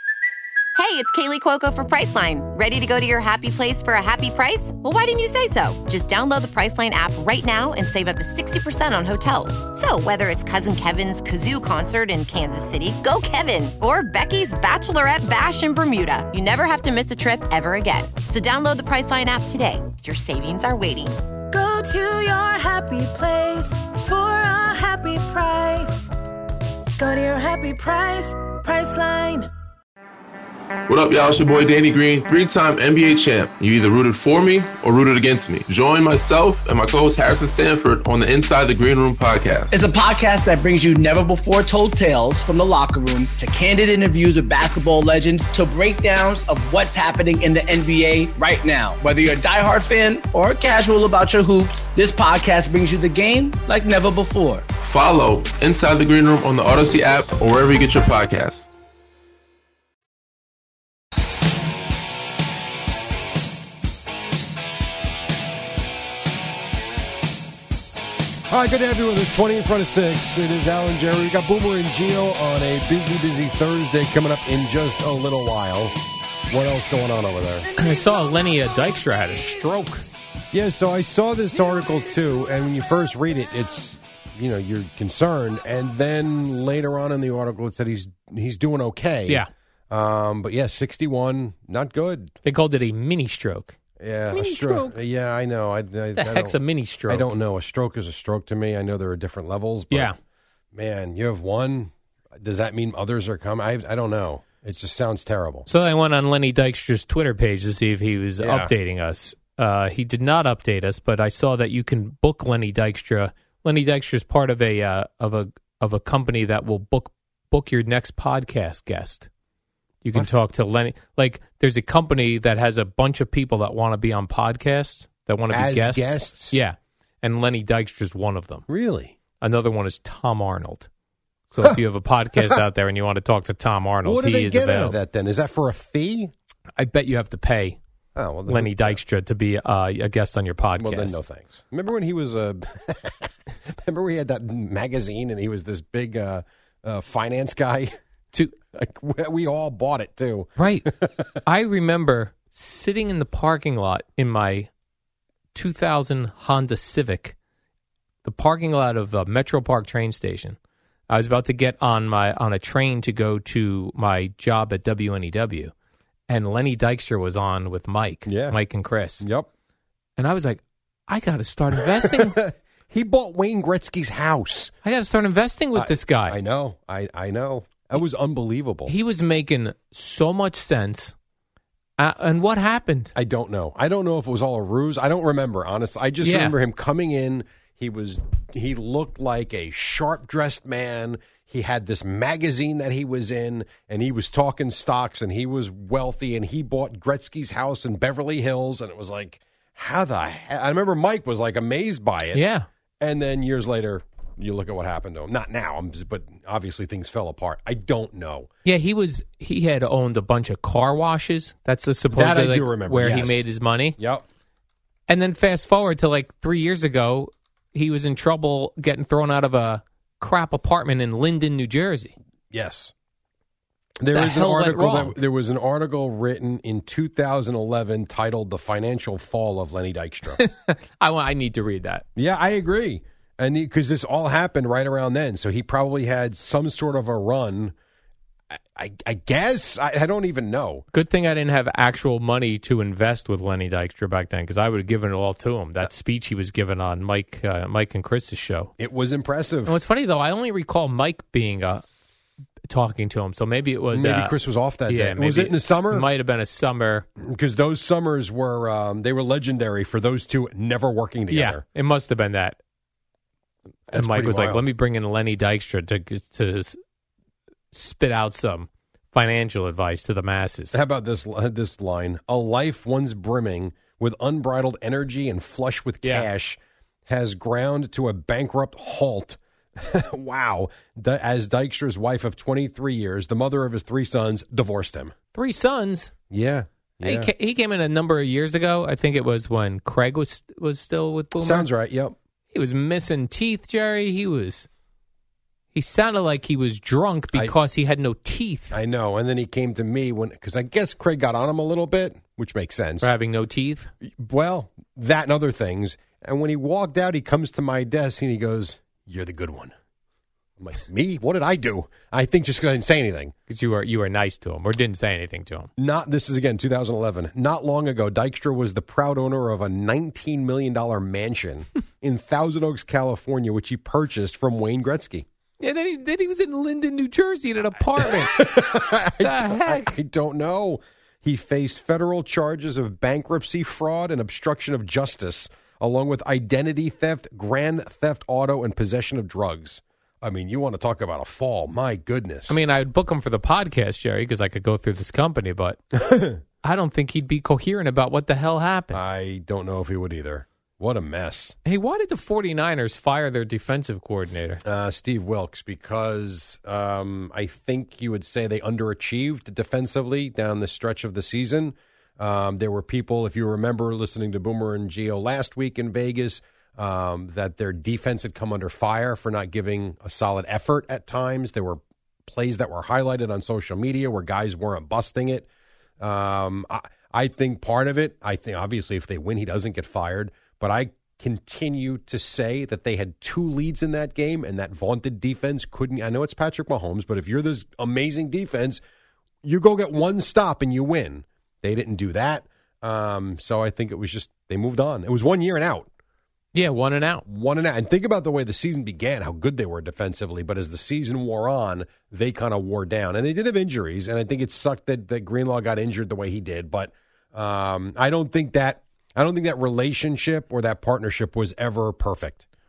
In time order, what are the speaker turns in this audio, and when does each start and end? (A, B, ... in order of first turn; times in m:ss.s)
0:00.8-0:21.2 A
0:21.5-0:26.1 B
0:27.0-0:29.5 B
0:30.9-0:39.8 C
0:39.7-0:54.7 D
0:54.8-0:58.7 C
1:08.5-1:16.0 E
1:16.5-1:17.7 E
1:17.8-1:20.1 F
1:20.5-1:32.4 E
1:32.4-1:33.8 F
1:34.0-1:36.6 E
1:34.3-1:35.0 F
1:36.2-1:37.3 F
1:37.1-1:40.1 E
1:39.9-1:40.2 F
1:40.7-1:45.7 E
1:45.7-1:59.3 F
1:48.4-1:48.7 E
2:00.0-2:08.7 F
2:05.5-2:06.6 E
2:08.7-2:09.2 E
2:09.4-2:10.9 F
2:11.5-2:15.0 F
2:14.0-2:16.3 E
2:16.8-2:17.8 F
2:18.2-2:19.0 E
2:18.5-2:21.2 F
2:20.8-2:27.9 E
2:28.7-2:31.4 E
2:30.6-2:30.9 F
2:31.4-2:34.7 F
2:35.5-2:37.4 F
2:38.2-2:40.6 F
2:41.1-2:45.7 F
2:46.3-2:49.3 F
2:48.3-2:48.6 E
2:49.2-2:49.5 E
2:50.2-2:52.4 F
2:51.8-2:54.7 E
2:54.8-2:56.4 F
2:55.8-2:58.9 E
2:58.9-3:01.1 F
3:02.0-3:03.1 F
3:03.2-3:22.4 E
3:06.2-3:06.6 F
3:22.3-3:22.7 F
3:23.0-3:28.5 E
3:28.6-3:34.0 F
3:32.1-3:33.4 E
3:34.0-3:34.2 E
3:35.1-3:42.1 F
3:42.5-3:42.9 E
3:44.0-3:50.4 E
3:44.1-3:45.2 F
3:50.4-3:52.0 F
3:52.2-3:57.7 E
3:58.5-4:00.8 E
4:00.9-4:08.7 F
4:08.8-4:09.8 E
4:09.7-4:11.8 F
4:12.7-4:14.3 F
4:13.9-4:16.1 E
4:14.9-4:17.1 F
4:17.2-4:21.6 E
4:21.3-4:22.6 F
4:23.9-4:26.8 F
4:23.9-4:24.6 E
4:27.7-4:30.8 F
4:30.7-4:45.2 E
4:45.4-4:46.1 F
4:46.3-4:47.3 E
4:47.0-4:51.7 F
4:51.4-4:52.2 E
4:52.5-4:54.7 F
4:55.7-4:58.7 F
4:58.7-5:03.1 E
5:03.0-5:03.9 F
5:04.0-5:09.7 E
5:10.6-5:13.3 E
5:13.5-5:15.7 F
5:15.8-5:25.3 E
5:25.6-5:28.7 F
5:28.0-5:42.6 E
5:29.2-5:29.9 F
5:42.5-5:45.8 F
5:46.0-5:46.4 E
5:46.6-5:49.0 F
5:48.9-5:51.6 E
5:51.6-5:54.6 F
5:54.6-6:15.5 E
6:16.0-6:28.8 E
6:29.4-6:35.9 E
6:36.5-6:37.2 F
6:37.3-6:52.4 E